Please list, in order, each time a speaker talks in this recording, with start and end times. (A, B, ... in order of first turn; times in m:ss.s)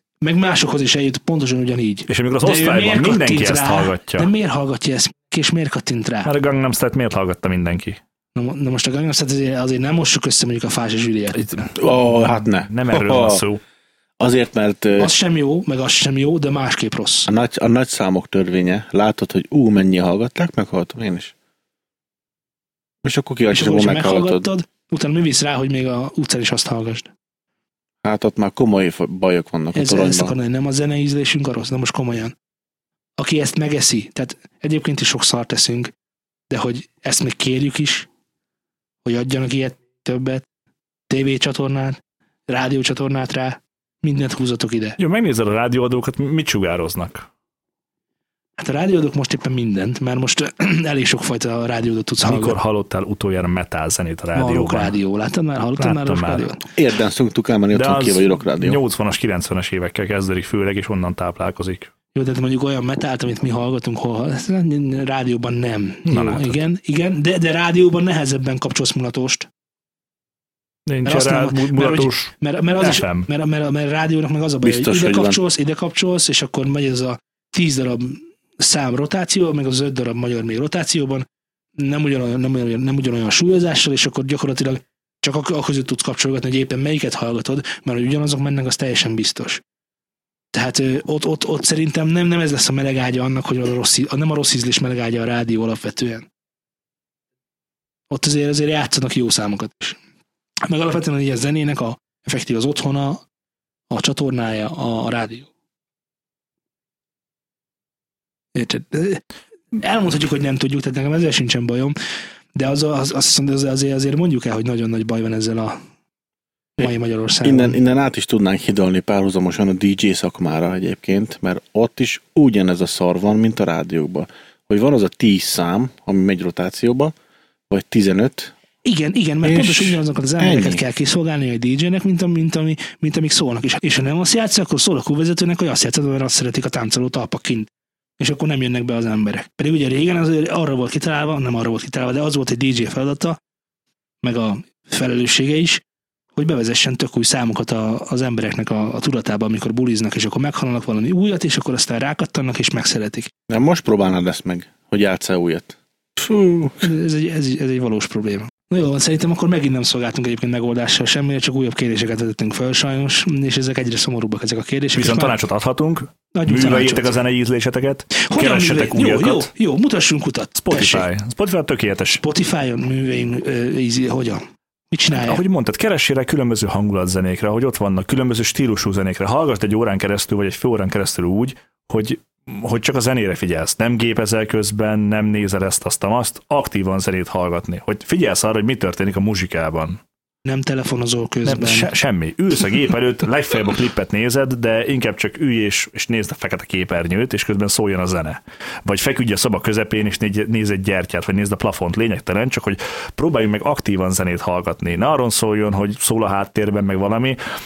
0:00.2-0:06.3 A
0:02.1-0:04.3 B
0:06.2-0:08.0 B
0:08.3-0:11.7 A
0:11.7-0:13.4 C
0:12.6-0:13.6 B
0:14.2-0:15.1 C
0:15.0-0:17.3 A
0:17.3-0:21.3 C
0:23.0-0:24.4 C
0:23.5-0:27.1 A
0:28.0-0:30.3 C
0:29.7-0:32.3 A
0:33.2-0:35.9 A
0:36.5-0:38.1 A
0:39.0-0:40.4 A
0:41.1-0:45.0 A
0:45.0-0:47.3 B
0:48.6-0:52.6 A
0:52.2-0:54.9 B
0:54.3-0:56.6 A
0:55.8-0:56.4 B
0:56.8-0:58.8 C
0:57.7-1:01.9 B
1:02.1-1:09.5 A
1:06.0-1:06.5 B
1:10.9-1:13.3 B
1:11.0-1:21.2 A
1:14.6-1:15.4 C
1:21.8-1:29.6 A
1:30.5-1:36.3 A
1:38.1-1:40.0 A
1:40.6-1:43.2 A
1:43.9-1:45.5 A
1:48.5-1:49.2 A
1:49.7-1:51.9 A
1:52.6-1:55.8 A
1:56.8-1:57.8 A
1:57.4-2:07.1 C
2:07.7-2:08.5 C
2:08.8-2:23.4 A
2:09.4-2:10.8 C
2:24.2-2:25.8 A
2:26.4-2:33.3 A
2:33.5-2:36.8 C
2:36.8-2:45.4 A
2:44.9-2:49.5 B
2:46.3-2:47.1 A
2:48.2-2:51.1 A
2:50.6-2:52.2 B
2:52.2-2:55.4 A
2:55.1-3:10.0 B
3:10.4-3:11.9 A
3:11.4-3:27.4 B